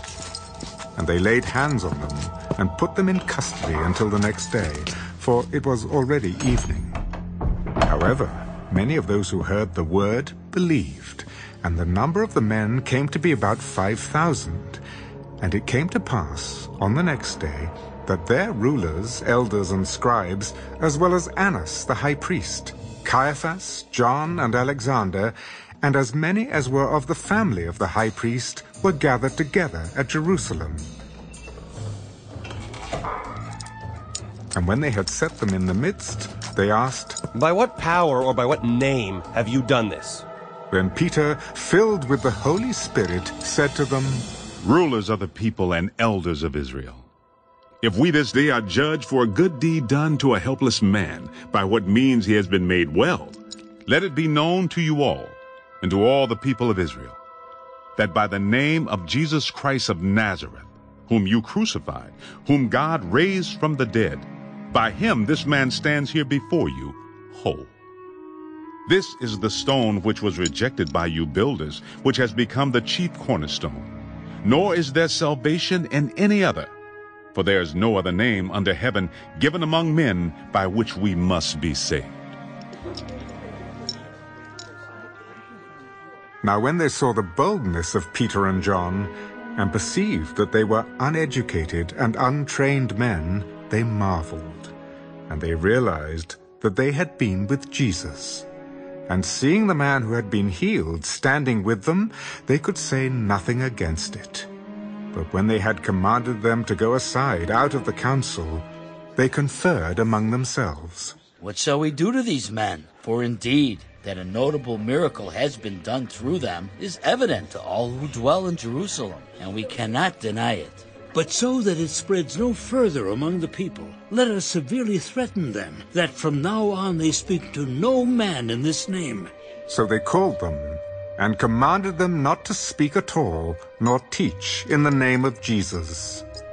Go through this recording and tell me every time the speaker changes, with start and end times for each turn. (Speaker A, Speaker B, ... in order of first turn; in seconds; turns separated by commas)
Speaker A: 1.0-7.0, Speaker A: 7.8-14.8, Speaker A: 15.4-30.9, Speaker A: 34.5-37.2, Speaker B: 37.3-40.3, Speaker A: 40.7-44.3, Speaker C: 44.6-47.1, Speaker C: 47.8-57.2, Speaker C: 58.0-67.7, Speaker C: 68.9-73.9, Speaker C: 74.4-76.7, Speaker C: 77.3-82.2, Speaker A: 86.4-94.8, Speaker A: 95.3-98.5, Speaker A: 99.1-104.5, Speaker A: 105.1-111.2, Speaker D: 111.4-121.1, Speaker E: 121.2-126.1, Speaker D: 122.7-123.2, Speaker D: 125.6-127.7, Speaker E: 126.7-128.9, Speaker D: 128.2-129.2, Speaker A: 129.7-136.2